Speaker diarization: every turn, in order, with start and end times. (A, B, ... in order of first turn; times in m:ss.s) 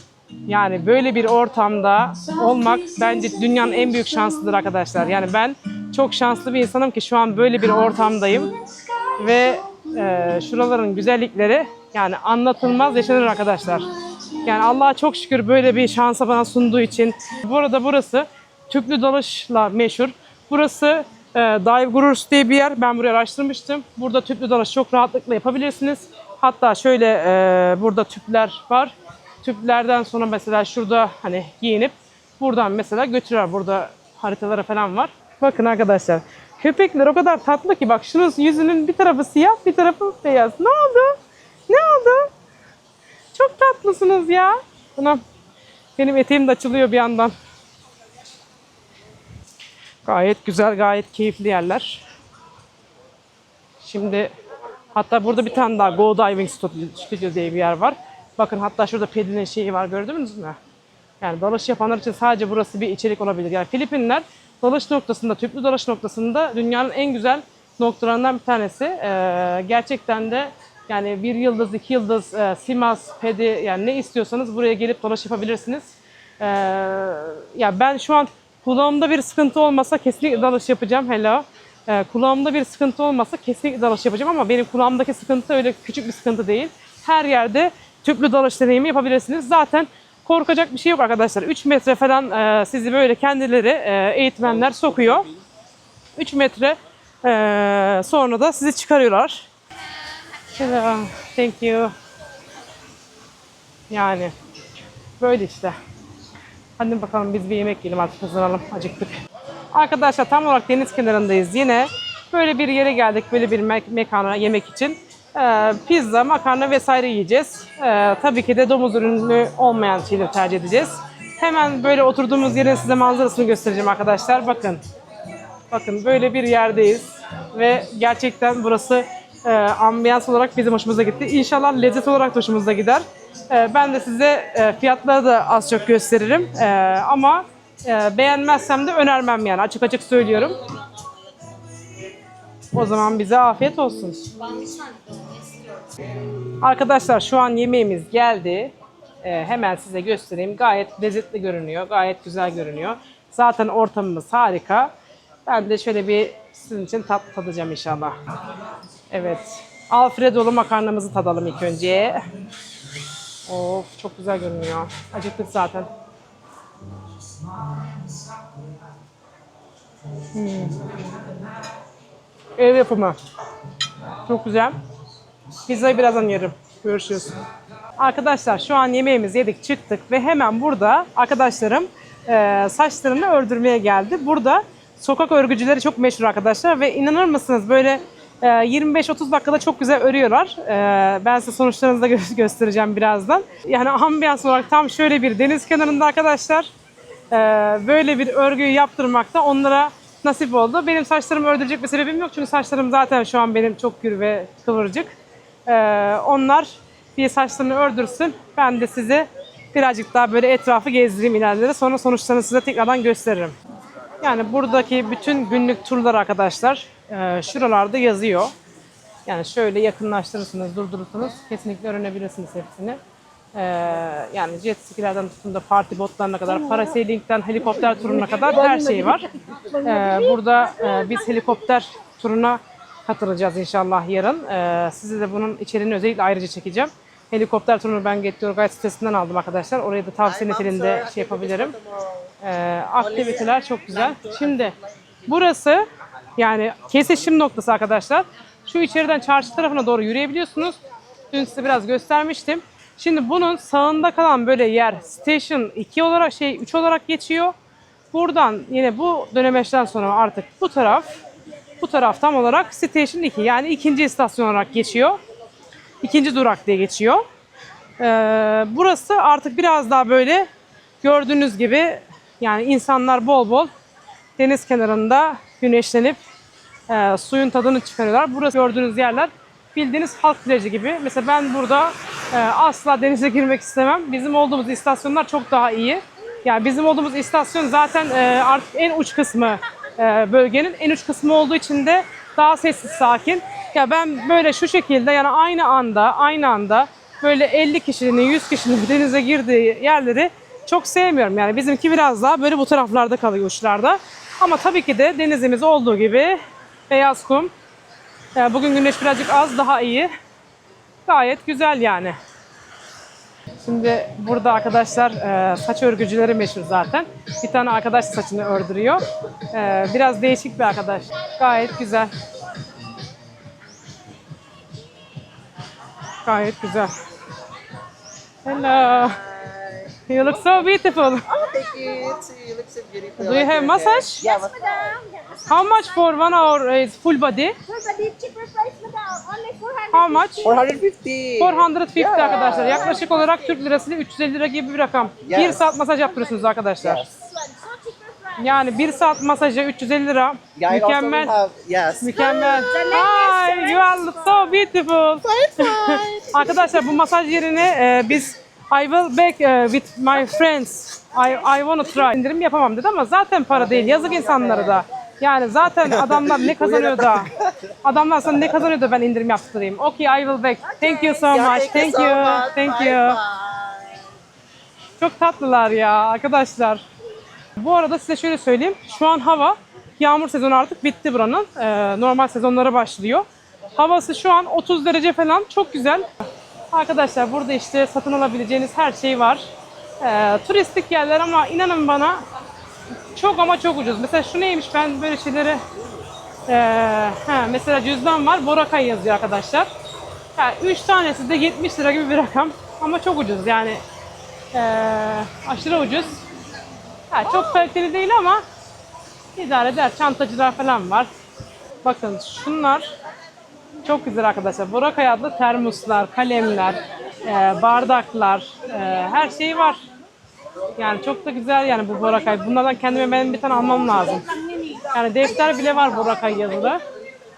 0:00.5-0:41.2 A
0:41.7-0:42.3 A
0:43.3-0:45.2 A
0:46.0-0:47.3 A
0:50.0-0:52.0 A
0:53.8-0:54.3 A
0:54.9-1:00.6 A
1:01.2-1:35.3 A
1:36.2-1:39.5 A
1:40.5-1:41.9 A
1:43.9-1:44.3 A
1:45.2-1:45.8 A
1:46.8-1:49.2 A
1:49.7-2:04.8 A
2:05.7-2:20.7 A
2:22.7-2:24.3 A
2:24.4-2:25.6 B
2:26.6-2:34.9 A
2:35.5-2:38.2 A
2:39.1-2:42.2 A
2:43.5-2:45.9 A
2:50.2-2:50.8 A
2:52.6-2:53.2 A
2:54.2-2:54.8 A
2:55.7-2:57.4 A
2:58.0-3:16.7 A
3:17.3-3:25.2 A
3:25.7-3:33.6 A
3:34.2-3:38.5 A
3:39.3-3:43.0 A
3:43.5-3:49.3 A
3:48.7-3:50.4 B
3:49.8-4:01.8 A
4:00.4-4:02.0 C
4:02.4-4:04.8 A
4:05.3-4:05.8 A
4:06.4-4:10.8 A
4:11.3-4:17.6 A
4:18.1-4:21.1 A
4:21.8-4:25.2 A
4:26.0-4:27.2 A
4:28.0-4:30.5 A
4:31.0-4:33.7 A
4:34.4-4:36.2 A
4:36.9-5:06.4 A
5:06.9-5:07.5 A
5:08.4-5:10.1 A
5:11.0-5:12.2 A
5:13.6-5:22.1 A
5:26.2-5:27.0 A
5:28.4-5:29.3 A
5:29.4-5:29.9 C
5:30.0-5:31.3 A
5:31.3-5:34.7 C
5:33.2-5:34.3 A
5:34.2-5:35.8 B
5:35.5-5:37.6 A
5:37.6-5:40.6 B
5:39.9-5:40.5 A
5:40.4-5:42.8 C
5:41.4-5:47.1 A
5:45.2-5:45.6 C
5:46.8-5:47.1 C
5:47.2-5:48.6 B
5:48.4-5:51.3 A
5:50.6-5:52.6 C
5:52.0-6:07.3 A
5:52.2-5:54.5 B
5:55.3-5:56.7 C
6:03.6-6:04.8 C
6:06.1-6:07.2 C
6:07.8-6:13.2 A
6:11.3-6:13.9 C
6:15.0-6:16.8 A
6:17.6-6:26.1 A
6:26.7-6:29.5 A
6:30.0-6:32.2 A
6:33.1-6:35.6 A
6:36.5-6:39.7 A
6:40.4-6:43.8 A
6:44.5-6:46.2 A
6:47.1-6:48.4 A
6:49.4-6:51.1 A
6:51.8-6:52.9 A
6:53.8-6:59.8 A
7:00.8-7:06.8 A